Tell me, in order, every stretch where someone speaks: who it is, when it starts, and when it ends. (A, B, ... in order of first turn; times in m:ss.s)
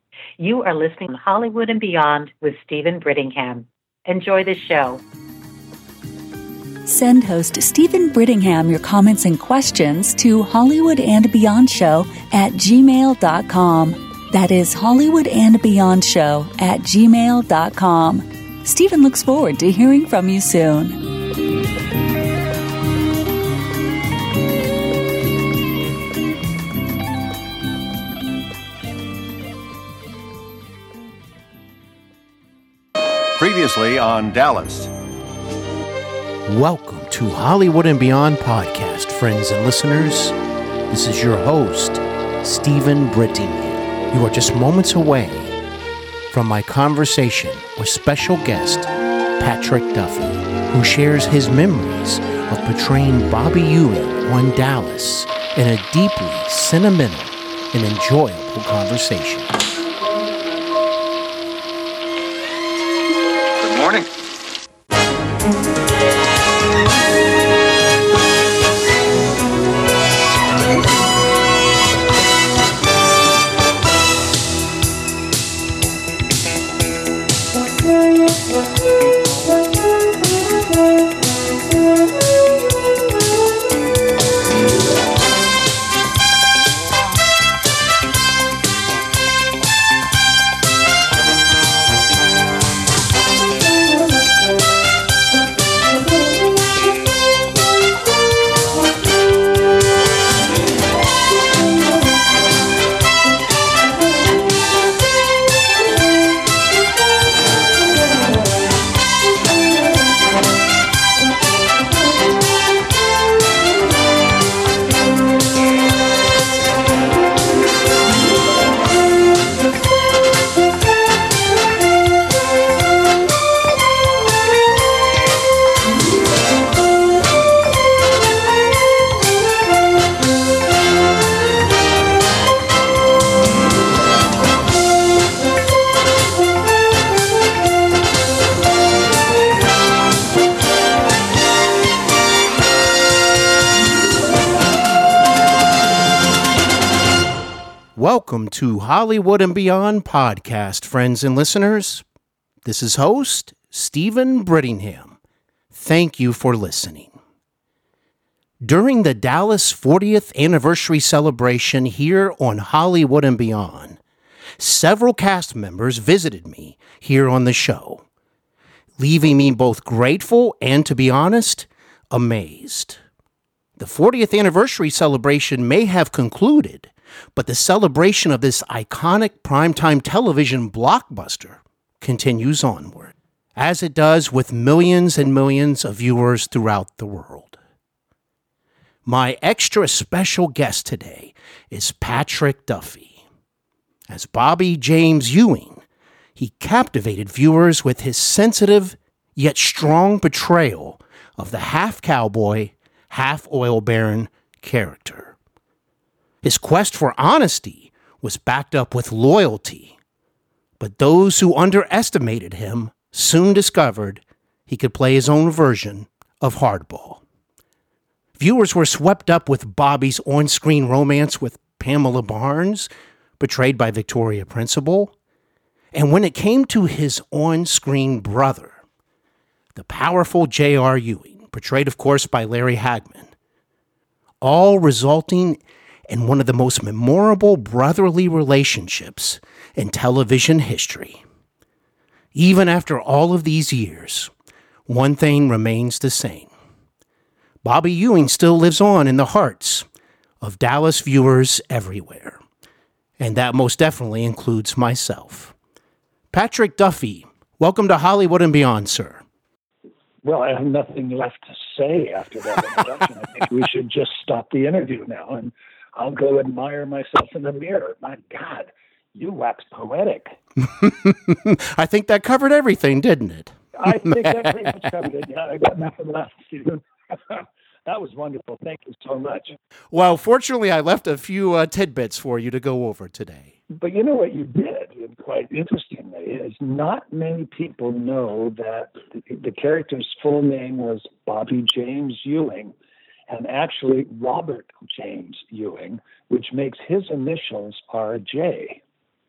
0:00.4-0:05.0 A
0:06.8-0:21.0 B
0:33.4-0:34.9 C
0:36.4-0:40.3 D
0:40.9-0:45.5 D
0:46.3-0:59.5 D
1:03.6-1:04.1 C
2:28.0-2:32.0 D
2:32.6-2:35.2 D
2:35.7-2:37.1 D
2:38.6-2:44.0 D
2:44.6-2:48.0 D
2:49.0-2:53.0 D
2:53.8-3:07.6 D
3:09.0-3:13.2 D
3:14.1-3:15.8 D
3:16.4-3:25.3 D
3:26.4-3:30.0 D
3:30.8-3:37.2 D
3:38.4-3:45.1 D
3:45.9-3:48.8 D
3:49.7-3:53.3 D
3:54.4-4:01.2 D
4:02.3-4:04.3 D
4:04.9-4:06.5 D
4:07.6-4:09.8 D
4:10.4-4:12.4 D
4:13.2-4:15.5 D
4:16.3-4:19.2 D
4:20.2-4:30.4 E
4:30.6-4:34.0 D
4:33.7-4:39.5 E
4:39.9-4:43.5 D
4:43.7-4:52.7 E
4:53.3-4:58.8 E